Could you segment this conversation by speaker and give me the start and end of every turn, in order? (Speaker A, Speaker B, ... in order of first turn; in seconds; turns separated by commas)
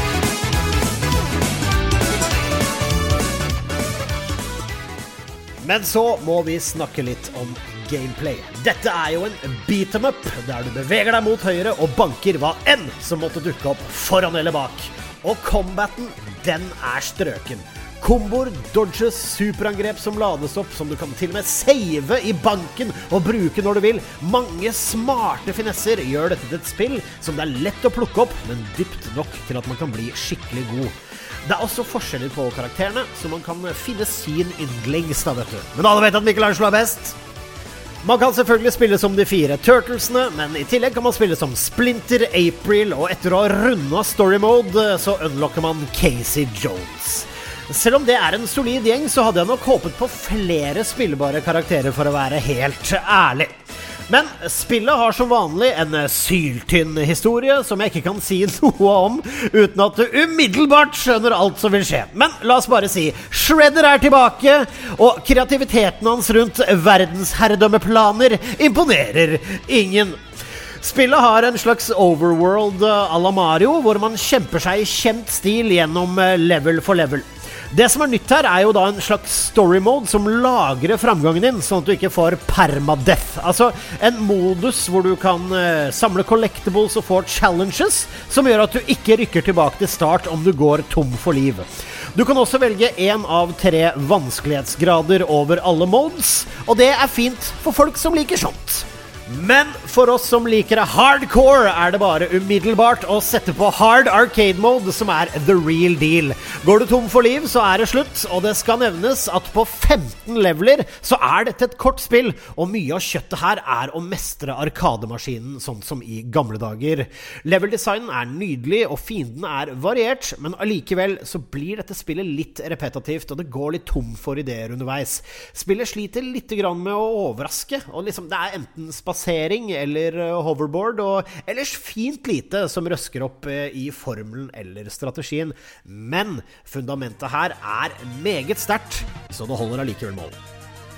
Speaker A: 5.6-37.2, Speaker A: 38.0-53.6, Speaker A: 54.1-70.2, Speaker A: 70.8-140.4